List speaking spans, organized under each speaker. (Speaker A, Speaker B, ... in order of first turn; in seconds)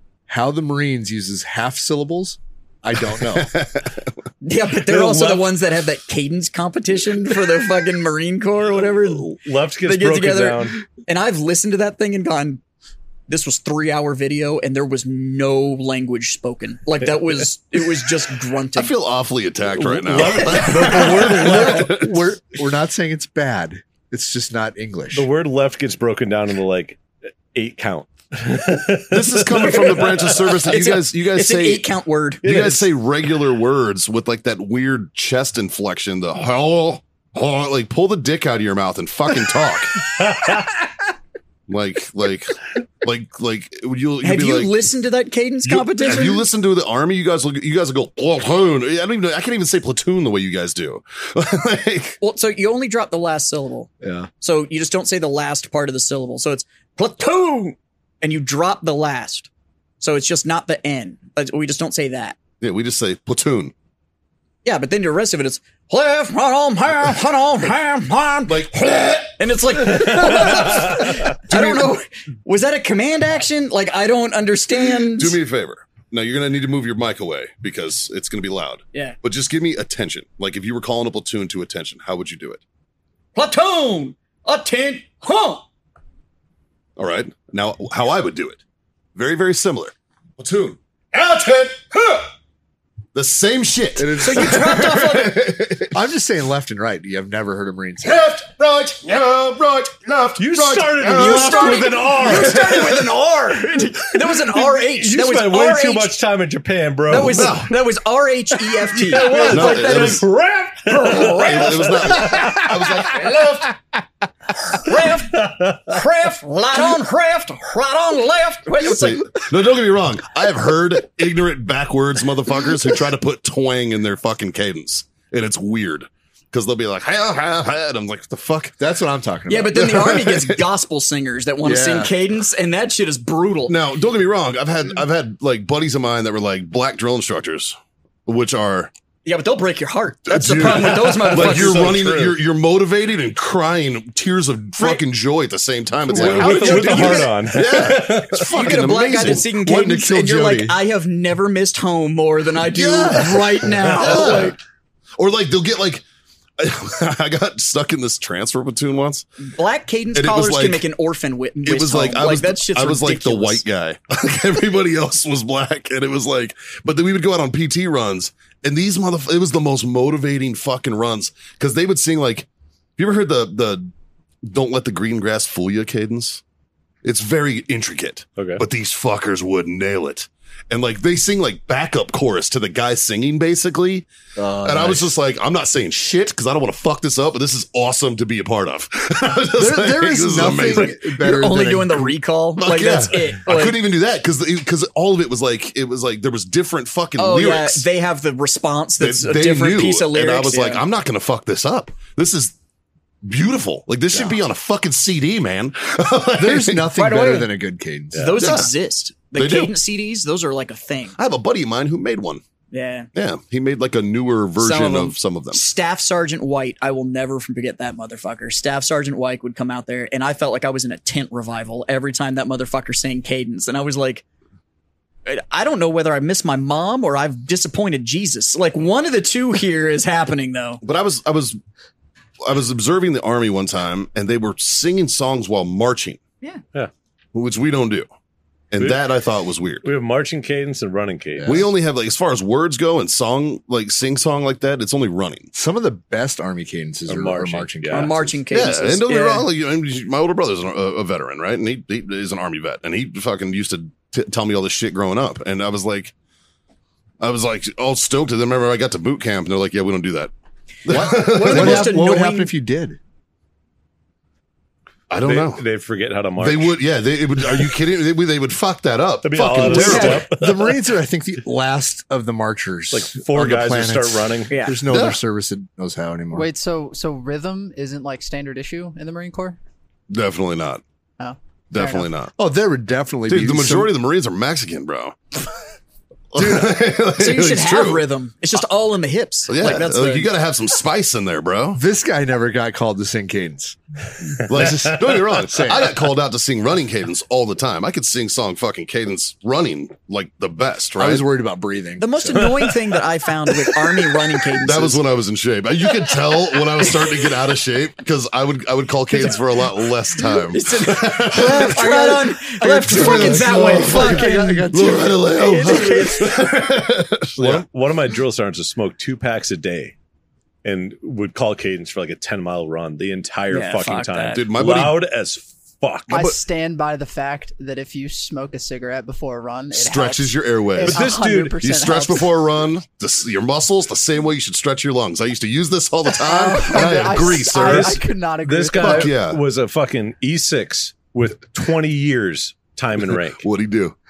Speaker A: 0.3-3.6, 20.9-25.3, 54.0-54.3, 94.0-94.8, 95.9-98.2, 128.8-129.9, 131.6-132.1, 149.2-150.8, 153.1-153.6, 184.4-185.1, 189.6-192.1, 206.4-208.3, 241.4-241.7, 245.6-248.4, 260.9-263.0, 269.7-276.5, 282.3-283.9, 286.4-286.7, 291.7-293.8, 294.3-296.1, 301.0-302.5, 311.3-316.3
Speaker B: 3.2-4.2, 18.7-22.2, 29.1-31.9, 32.4-40.1, 41.7-44.8, 45.6-52.2, 62.6-63.7, 68.5-69.3, 70.3-70.9, 71.5-71.9, 75.1-82.6, 87.0-88.6, 89.2-92.2, 93.1-96.0, 98.0-102.8, 107.2-107.8, 109.4-110.2, 111.1-113.7, 118.8-128.8, 129.7-130.6, 133.7-138.9, 140.3-149.5, 152.6-154.6, 155.2-156.1, 156.6-159.3, 160.1-160.8, 161.6-173.9, 174.4-176.4, 177.0-184.1, 184.6-190.9, 192.6-197.9, 199.0-202.6, 203.2-206.9, 208.4-208.7, 209.3-209.7, 211.2-212.4, 213.1-215.6, 230.8-231.6, 232.4-236.2, 237.3-238.1, 238.7-239.9, 241.4-245.5, 248.5-256.1, 257.2-260.3, 260.8-262.0, 265.1-265.6, 266.4-270.2, 274.9-275.2, 280.1-280.8, 281.7-282.3, 283.3-285.2, 286.3-288.1, 289.5-291.8, 294.4-301.2, 304.6-312.0, 312.9-317.6, 324.3-325.0, 326.1-326.4, 329.7-338.0, 338.8-339.4, 343.3-343.9
Speaker C: 4.4-12.6, 13.3-18.9, 20.4-21.0, 29.6-30.1, 30.7-32.8, 44.2-46.4, 52.2-59.5, 60.0-62.4, 64.6-75.4, 83.3-85.6, 94.2-95.4, 101.1-106.2, 107.1-110.3, 110.9-113.7, 114.7-119.4, 129.5-133.8, 139.2-142.0, 146.1-147.7, 148.3-154.6, 159.4-163.6, 190.6-193.8, 197.2-200.8, 206.9-207.5, 208.1-211.2, 212.7-213.1, 214.6-224.2, 225.2-230.8, 247.9-249.5, 260.9-262.5, 269.7-270.2, 274.5-274.8, 287.2-290.3, 302.0-305.0, 309.1-316.4, 323.5-324.4
Speaker D: 4.9-5.4, 9.3-10.8, 19.7-22.2, 25.1-27.0, 27.5-30.5, 40.2-40.8, 70.1-71.2, 100.4-103.0, 104.2-107.6, 108.5-113.2, 114.9-116.0, 140.8-142.4, 146.1-148.5, 178.4-178.6, 208.1-208.4, 239.8-241.5, 247.1-248.2, 265.2-266.8, 269.2-270.8, 272.9-274.6, 302.4-302.7, 317.3-319.9, 320.6-326.2, 330.8-331.6, 337.6-343.4
Speaker E: 276.3-279.6, 281.2-282.1, 326.1-332.4, 336.2-339.1